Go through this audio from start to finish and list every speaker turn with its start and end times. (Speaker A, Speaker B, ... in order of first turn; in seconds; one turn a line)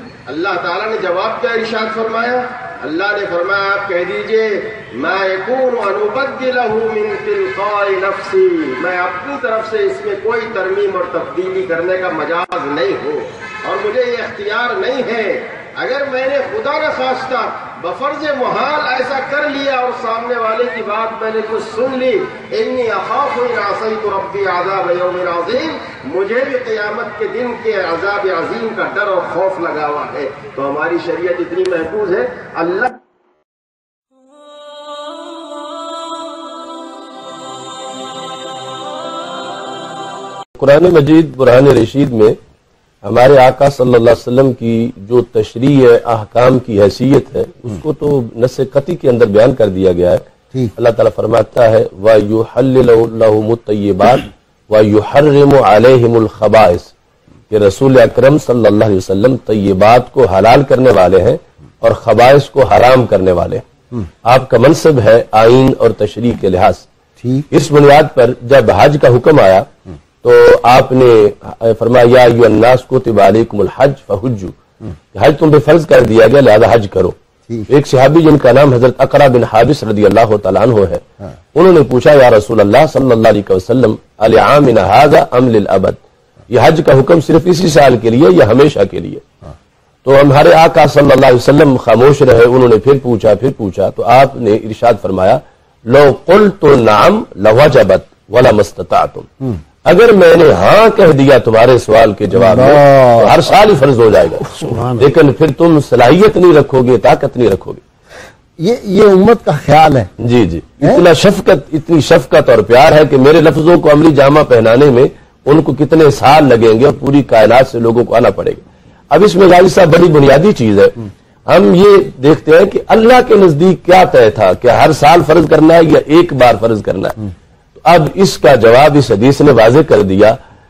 Speaker A: 0.3-32.9
Speaker B: 40.6-42.3
Speaker B: 43.0-50.2
Speaker B: 50.8-56.9
Speaker B: 57.5-63.6
Speaker B: 64.2-66.9
Speaker C: 67.2-67.5
Speaker B: 67.5-69.7
Speaker B: 70.2-74.5
Speaker B: 75.1-77.1
Speaker B: 77.7-81.0
Speaker B: 81.5-86.0
Speaker B: 86.5-89.2
Speaker B: 90.0-99.3
Speaker B: 99.8-107.8
Speaker C: 102.3-103.4
Speaker C: 108.6-110.1
Speaker B: 110.2-120.9
Speaker B: 121.5-127.2
Speaker B: 127.8-130.4